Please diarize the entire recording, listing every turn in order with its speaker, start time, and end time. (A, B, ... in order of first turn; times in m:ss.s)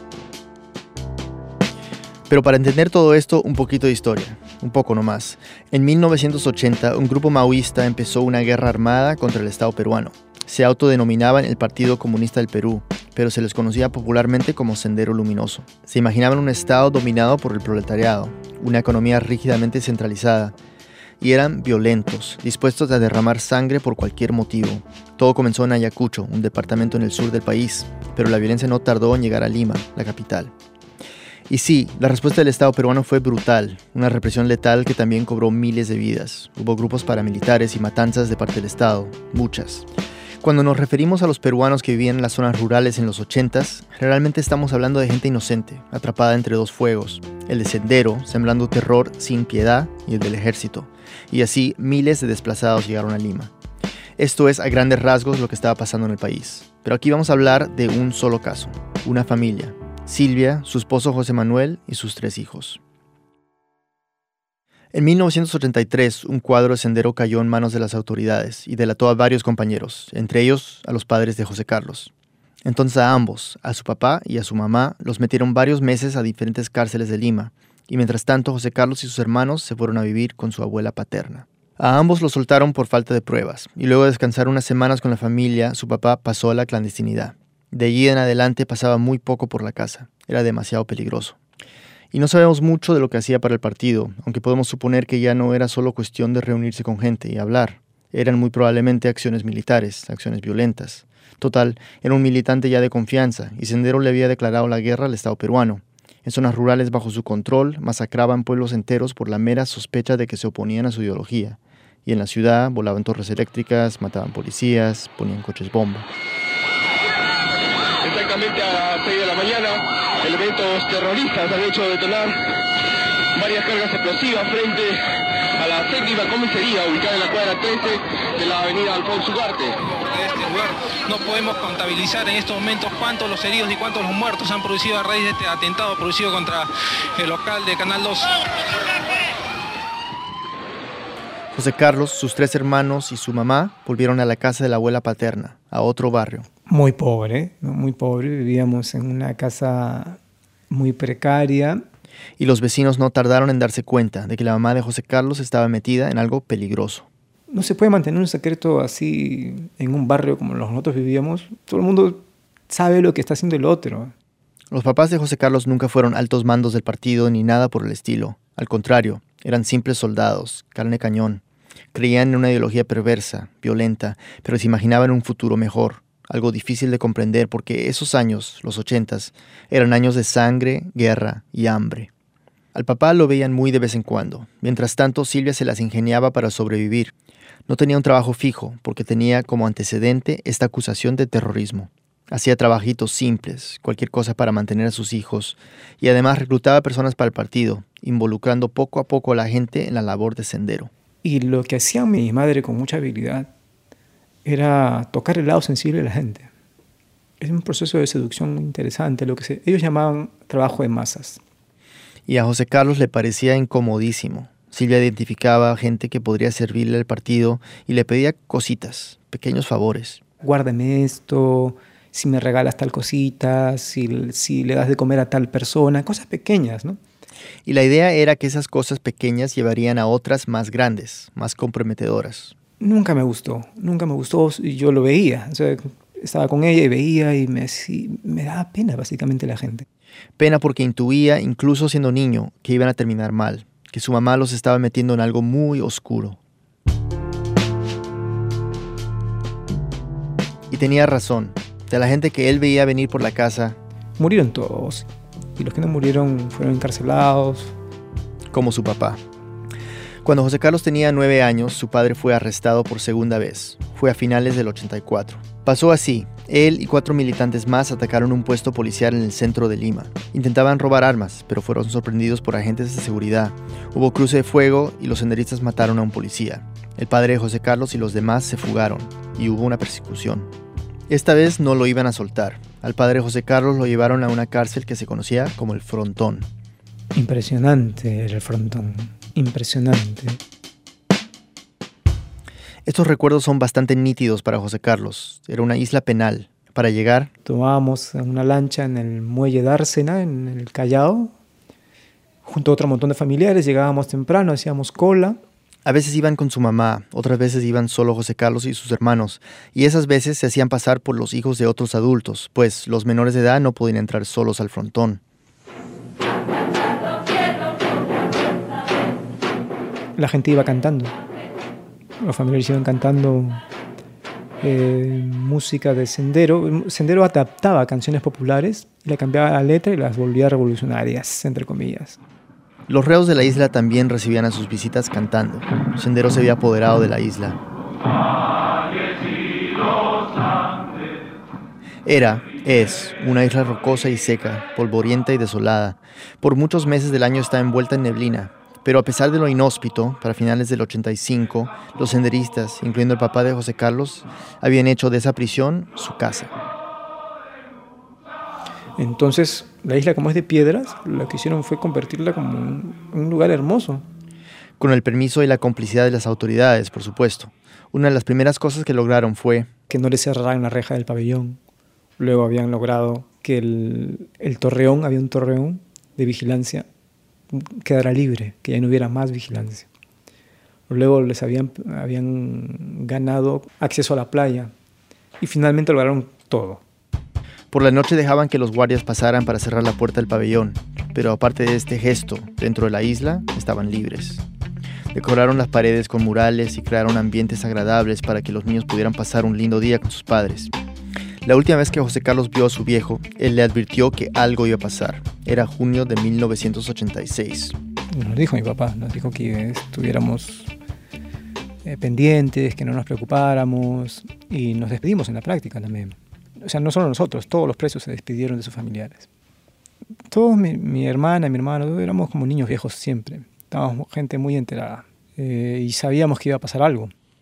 0:02.3-0:20.6 A
0:21.2-0:30.5 A
0:31.5-0:39.9 A
0:40.4-0:53.5 A
0:54.2-1:02.8 A
1:04.9-1:12.1 A
1:12.6-1:31.4 A
1:32.1-1:56.1 A
1:58.0-2:02.4 B
2:03.3-2:05.0 B
2:05.6-2:09.8 B
2:10.1-2:18.3 C
2:21.5-2:26.5 A
2:26.7-2:30.2 D
2:30.7-2:31.8 D
2:32.4-2:37.1 A
2:37.5-2:44.1 D
2:44.7-2:51.4 A
2:51.9-3:02.1 A
3:02.7-3:07.1 A
3:07.7-3:20.9 A
3:21.2-3:23.5 D
3:24.4-3:26.5 D
3:27.4-3:31.4 D
3:32.3-3:40.2 A
3:40.4-3:47.0 D
3:47.6-3:52.5 A
3:52.8-3:59.8 D
4:00.4-4:06.4 A
4:10.7-4:13.8 A
4:14.2-4:17.7 D
4:18.5-4:19.2 A
4:20.2-4:40.5 A
4:41.1-4:46.5 A
4:47.1-4:50.4 D
4:52.8-4:57.3 A
4:57.4-5:01.3 D
5:02.4-5:05.4 D
5:05.8-5:15.2 A
5:20.2-5:21.1 D
5:22.2-5:23.6 D
5:24.6-5:32.2 D
5:32.9-5:37.6 A
5:42.0-5:56.5 A
5:59.0-6:04.0 D
6:04.8-6:09.7 A
6:09.9-6:11.6 D
6:12.2-6:16.9 D
6:17.5-6:19.9 D
6:20.9-6:24.7 D
6:25.4-6:26.8 D
6:27.7-6:34.4 A
6:35.1-6:40.7 A
6:41.4-6:47.8 A
6:48.1-6:50.7 D
6:51.8-6:59.3 D
7:00.3-7:07.1 D